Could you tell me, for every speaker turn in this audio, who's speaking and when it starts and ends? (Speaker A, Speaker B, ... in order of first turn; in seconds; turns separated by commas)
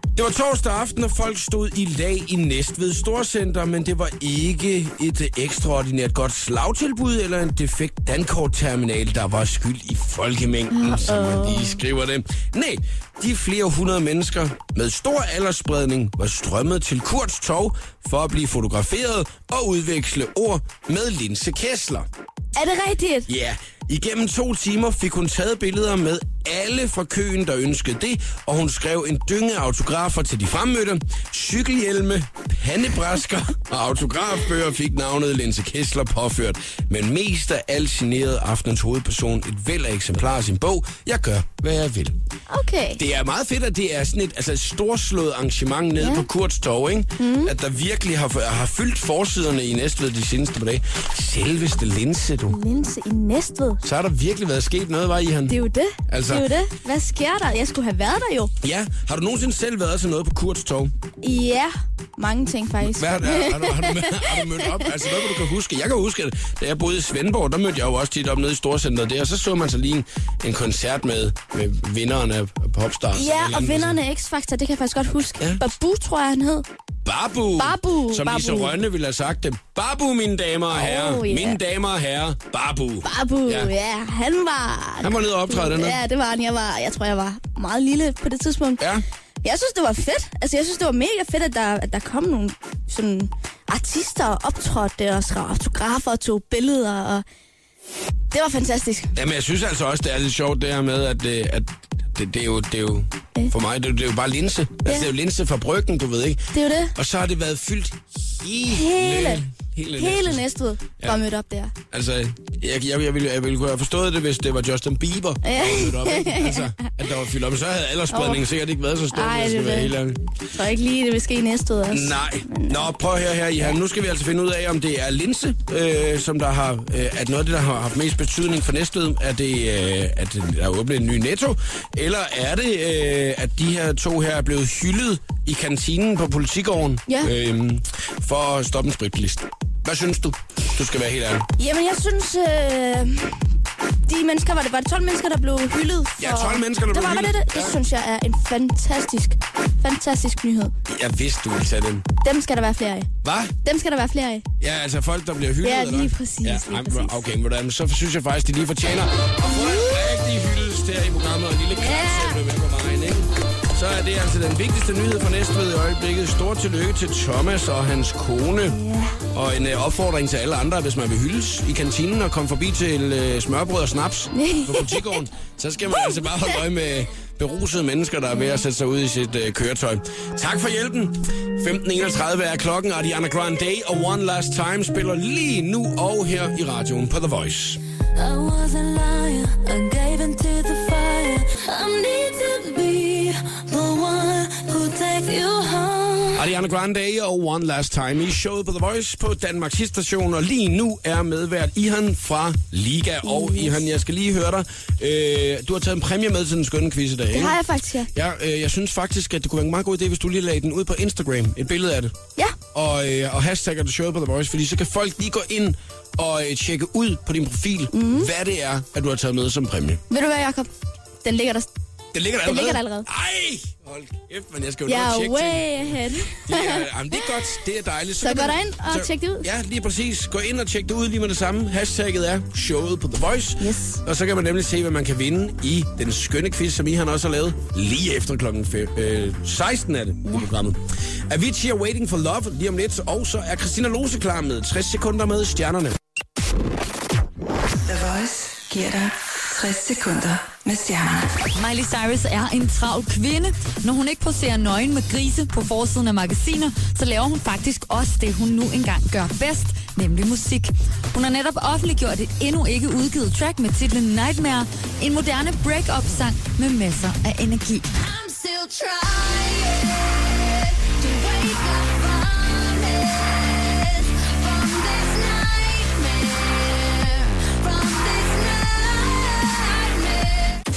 Speaker A: 0.1-22.1, Speaker B: 10.7-11.8, Speaker B: 22.5-23.3, Speaker A: 23.3-42.2, Speaker B: 42.5-43.0, Speaker A: 43.0-52.6, Speaker B: 46.0-46.3, Speaker B: 47.2-47.5, Speaker B: 52.5-53.8, Speaker A: 53.8-56.5, Speaker B: 55.5-58.5, Speaker A: 58.6-60.9, Speaker B: 61.2-65.0, Speaker A: 62.8-74.0, Speaker B: 73.1-76.6, Speaker A: 77.0-83.7, Speaker B: 77.5-78.8, Speaker B: 80.7-81.6, Speaker B: 83.0-88.8, Speaker A: 85.0-86.0, Speaker B: 89.4-97.2, Speaker B: 98.3-99.1, Speaker A: 99.2-110.4, Speaker B: 104.8-105.1, Speaker B: 106.5-106.9, Speaker B: 108.7-109.4, Speaker B: 110.0-111.7, Speaker A: 111.9-120.2, Speaker B: 115.4-116.6, Speaker B: 118.1-118.4, Speaker B: 119.1-119.9, Speaker B: 120.5-122.9, Speaker A: 121.9-141.5, Speaker B: 141.6-143.4, Speaker B: 144.1-150.7, Speaker A: 146.2-147.8, Speaker A: 150.9-152.1, Speaker B: 152.2-153.1, Speaker A: 153.2-153.5, Speaker B: 153.6-154.4, Speaker A: 154.6-168.8, Speaker B: 155.6-157.2, Speaker B: 159.4-160.0, Speaker B: 161.7-162.4, Speaker B: 168.7-169.2, Speaker A: 169.3-187.8, Speaker B: 174.3-175.2, Speaker C: 188.1-196.5, Speaker A: 196.3-207.6, Speaker B: 203.2-203.8, Speaker B: 207.3-208.1, Speaker A: 208.1-212.1, Speaker A: 212.7-220.0, Speaker B: 217.9-218.3, Speaker B: 220.1-220.7, Speaker B: 221.2-221.7, Speaker A: 222.1-246.0, Speaker B: 222.4-223.1, Speaker B: 224.9-226.9, Speaker B: 228.2-229.5, Speaker B: 233.6-234.0, Speaker B: 240.2-240.5, Speaker D: 247.8-251.3, Speaker E: 251.5-267.9, Speaker C: 268.0-280.6